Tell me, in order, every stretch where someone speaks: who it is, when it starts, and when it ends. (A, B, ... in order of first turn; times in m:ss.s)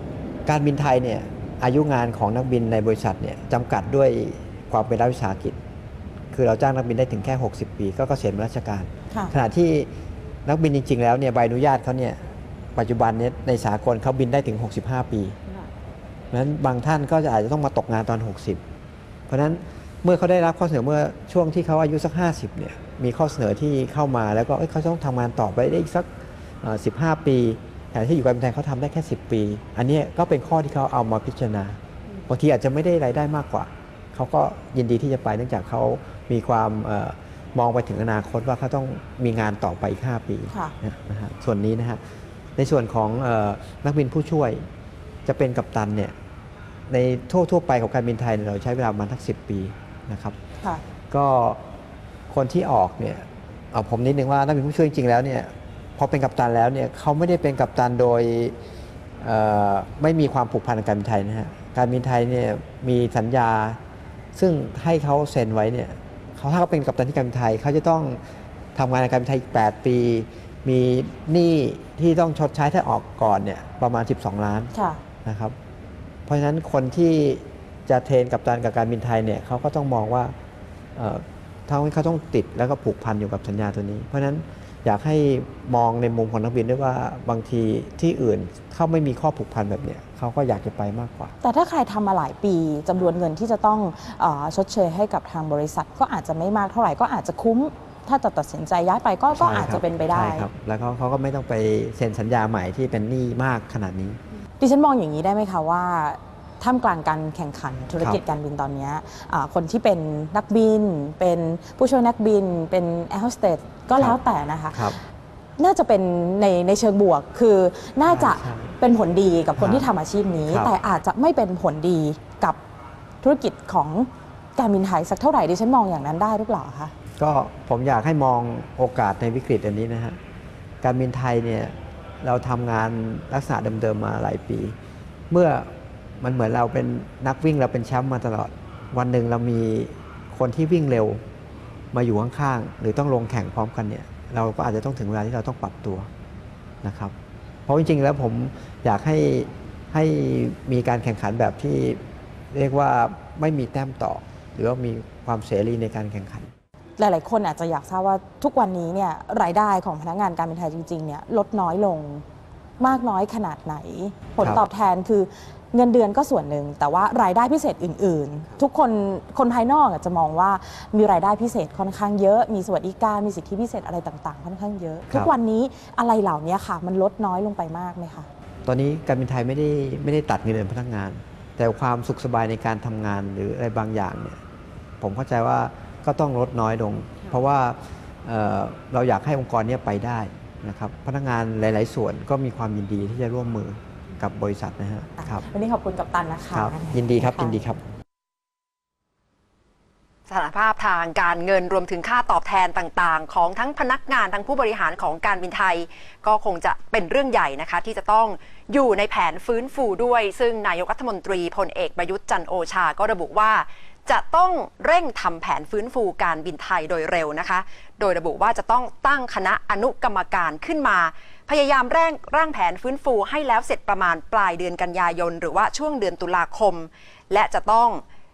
0:00.4-0:05.6 A
0:06.3-0:09.9 A
0:10.4-0:12.2 A
0:12.7-0:15.4 A
0:16.3-0:18.6 A
0:19.3-0:26.1 A
0:26.6-0:42.0 A
0:42.6-0:44.6 A
0:45.2-0:46.1 A
0:46.9-0:50.3 A
0:51.1-0:51.6 A
0:52.3-0:58.6 A
0:59.2-1:03.8 A
1:04.3-1:08.2 A
1:08.7-1:15.5 A
1:14.7-1:15.0 B
1:16.3-1:20.3 A
1:21.0-1:31.3 A
1:31.4-1:40.4 B
1:39.3-1:44.2 A
1:44.6-1:54.9 B
1:54.7-1:55.0 A
1:55.6-2:02.6 B
1:58.0-1:58.8 A
1:59.6-1:59.9 A
2:00.5-2:00.7 A
2:03.2-2:06.9 B
2:07.2-2:10.2 A
2:10.8-2:14.8 A
2:15.3-2:21.2 A
2:21.9-2:26.1 A
2:26.8-2:27.1 A
2:27.6-2:36.5 A
2:37.0-2:42.2 B
2:42.8-2:58.3 B
2:58.6-3:04.4 A
3:05.0-3:15.4 A
3:15.2-3:17.5 B
3:16.5-3:17.8 A
3:20.3-3:48.0 C